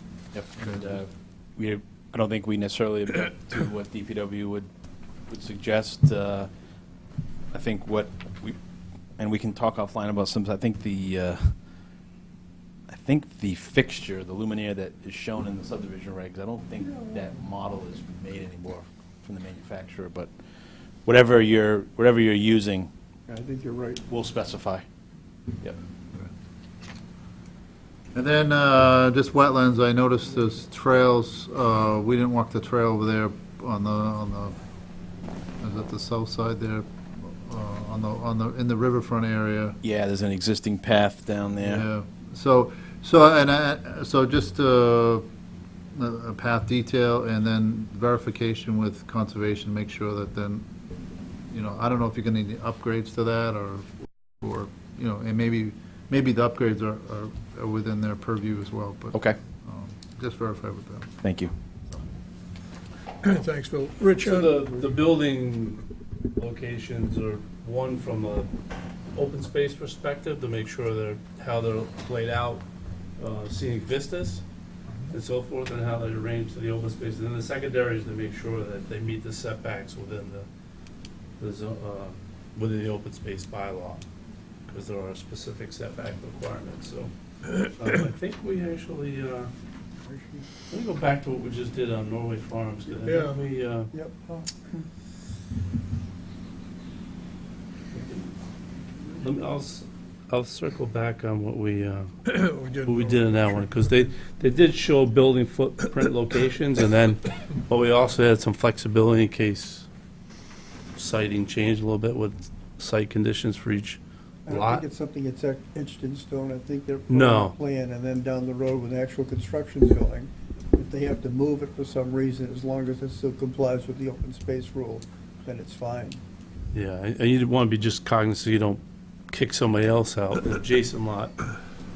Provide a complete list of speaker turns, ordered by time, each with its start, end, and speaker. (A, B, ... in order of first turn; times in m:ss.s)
0:00.3-0:04.7 A
0:05.3-0:06.5 A
0:07.5-0:08.6 A
0:09.2-0:11.5 A
0:12.9-0:20.3 A
0:16.8-0:17.2 B
0:21.0-0:22.9 A
0:23.3-0:24.0 B
0:24.1-0:24.8 A
0:28.1-0:34.6 C
0:35.6-0:39.8 C
0:39.8-0:41.9 A
0:41.6-0:45.3 C
0:45.9-0:50.6 C
0:51.5-0:53.9 C
0:54.4-1:01.2 C
1:01.2-1:01.5 A
1:03.2-1:04.8 D
1:04.2-1:05.8 E
1:06.4-1:08.5 E
1:09.1-1:12.6 E
1:13.2-1:14.4 E
1:15.1-1:20.5 E
1:21.4-1:24.0 E
1:24.7-1:29.5 E
1:30.1-1:30.4 B
1:30.7-1:33.9 E
1:33.1-1:33.4 D
1:33.9-1:34.8 B
1:38.0-1:38.3 E
1:39.2-1:42.3 E
1:42.3-1:44.1 D
1:42.8-1:49.9 E
1:51.0-1:54.8 E
1:54.5-2:06.2 B
1:57.1-1:57.6 E
2:06.7-2:11.5 E